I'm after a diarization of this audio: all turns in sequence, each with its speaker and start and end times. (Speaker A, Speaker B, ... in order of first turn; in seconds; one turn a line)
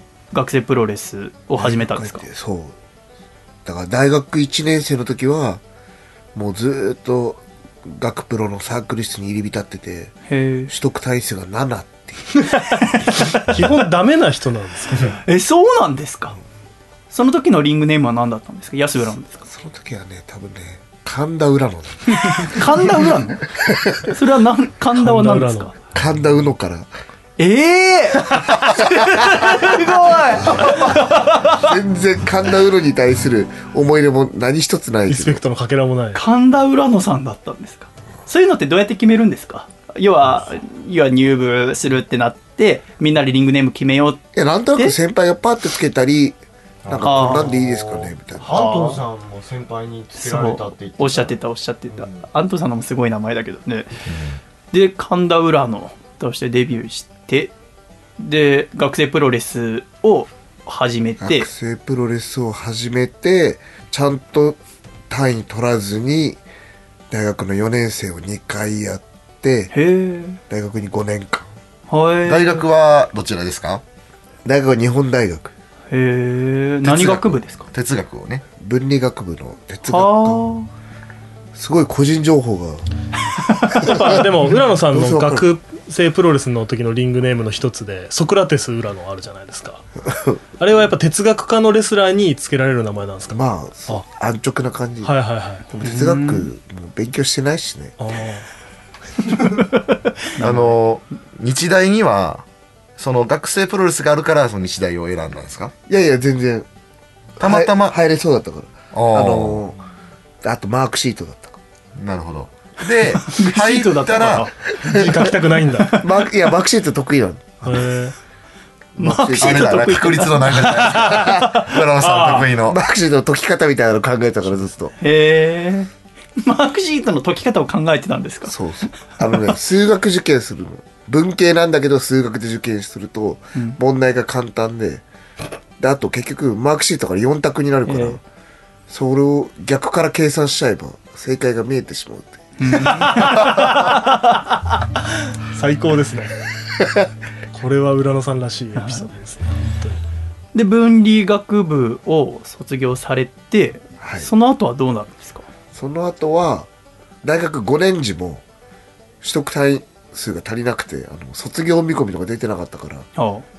Speaker A: 0.3-2.2
Speaker B: 1.6-2.8
Speaker B: 3.6-5.6
Speaker B: 6.3-12.4
Speaker A: 10.3-10.7
Speaker C: 12.4-15.2
Speaker A: 15.3-16.4
Speaker A: 17.1-19.4
Speaker B: 19.5-24.1
Speaker A: 22.1-23.4
Speaker A: 24.1-25.7
Speaker C: 25.0-25.7
Speaker B: 25.9-26.9
Speaker A: 27.4-31.6
Speaker B: 30.4-35.4
Speaker C: 35.1-36.2
Speaker A: 36.1-44.2
Speaker B: 44.3-48.6
Speaker D: 46.9-51.4
Speaker A: 47.0-47.6
Speaker A: 48.4-49.0
Speaker A: 50.1-53.9
Speaker D: 51.9-52.3
Speaker E: 54.1-54.4
Speaker A: 54.7-57.5
Speaker A: 58.2-61.5
Speaker B: 61.2-64.6
Speaker B: 65.1-66.4
Speaker B: 67.1-69.7
Speaker A: 69.7-70.4
Speaker B: 70.5-71.5
Speaker A: 71.9-72.7
Speaker E: 72.3-73.8
Speaker B: 74.5-75.5
Speaker A: 75.9-77.7
Speaker E: 76.8-78.5
Speaker B: 78.6-80.5
Speaker A: 79.9-80.7
Speaker B: 81.5-82.8
Speaker A: 83.6-84.0
Speaker C: 83.8-89.8
Speaker B: 83.9-84.2
Speaker B: 84.9-85.5
Speaker B: 90.1-90.4
Speaker C: 90.6-94.0
Speaker B: 93.3-95.2
Speaker C: 95.0-95.7
Speaker B: 95.7-97.9
Speaker A: 95.8-96.5
Speaker C: 98.0-98.5
Speaker A: 99.4-100.7
Speaker E: 100.4-102.5
Speaker E: 103.0-105.7
Speaker B: 105.9-106.7
Speaker E: 107.4-108.0
Speaker B: 107.4-109.8
Speaker E: 108.9-109.7
Speaker B: 110.4-111.6
Speaker E: 112.0-114.5
Speaker A: 113.2-114.5
Speaker B: 114.7-115.2
Speaker C: 114.8-116.0
Speaker B: 115.9-117.7
Speaker C: 117.6-118.2
Speaker B: 119.0-119.8
Speaker A: 119.0-121.3
Speaker E: 119.4-122.8
Speaker C: 122.0-122.5
Speaker B: 122.7-125.0
Speaker A: 125.0-128.6
Speaker B: 128.5-135.0
Speaker B: 135.8-138.2
Speaker A: 137.9-138.2
Speaker B: 138.9-143.4
Speaker A: 142.6-144.4
Speaker C: 143.1-143.8
Speaker C: 145.5-146.3
Speaker C: 147.5-150.0
Speaker A: 148.8-149.1
Speaker A: 150.5-155.4
Speaker B: 154.0-154.3
Speaker B: 155.7-156.7
Speaker B: 157.2-158.4
Speaker B: 159.2-163.1
Speaker A: 163.2-163.4